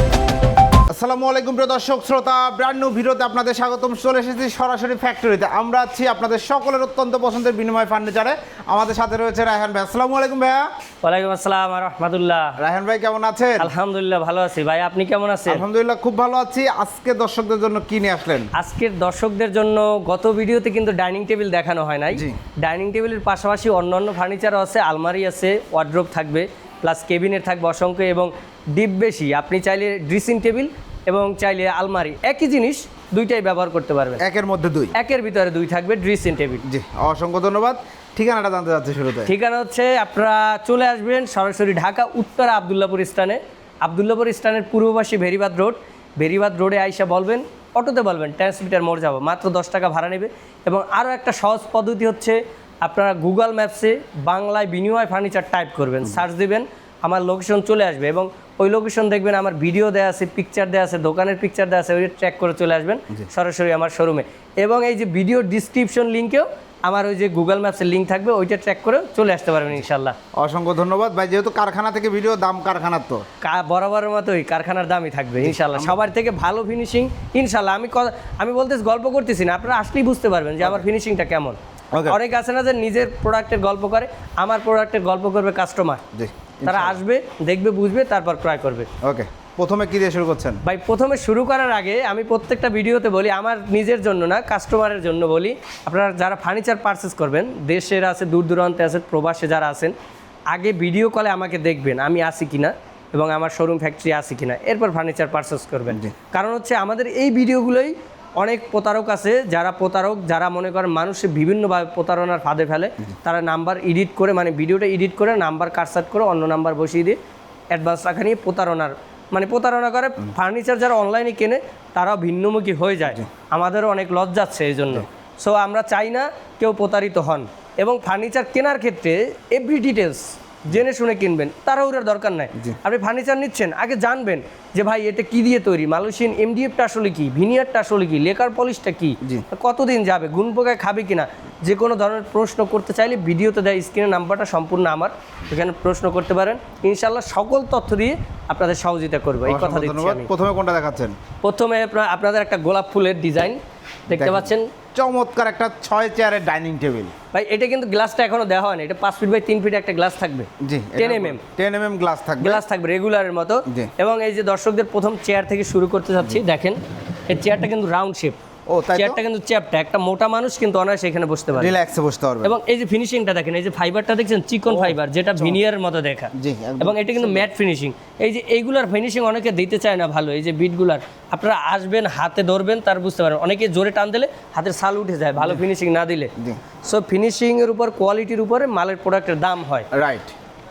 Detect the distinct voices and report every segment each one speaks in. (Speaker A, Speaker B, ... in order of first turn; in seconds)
Speaker A: 0.9-10.7, 12.6-13.7, 15.5-18.5, 34.2-35.0, 36.6-39.3, 70.4-73.2, 75.4-76.0, 81.9-82.2, 86.1-87.0, 89.0-90.6, 105.9-106.2, 149.4-151.2, 154.1-157.1, 160.6-162.6, 168.7-169.2, 171.5-172.6, 174.7-175.6, 176.3-177.5, 185.4-185.6, 189.9-190.3
Speaker B: 11.0-12.6, 13.6-15.6, 18.5-34.2, 34.9-36.6, 39.3-70.2, 73.4-86.0, 86.7-88.9, 90.6-99.9, 100.5-117.2, 117.7-150.3, 151.4-154.7, 157.3-161.4, 162.4-168.4, 168.9-171.7, 172.4-186.3, 186.8-189.9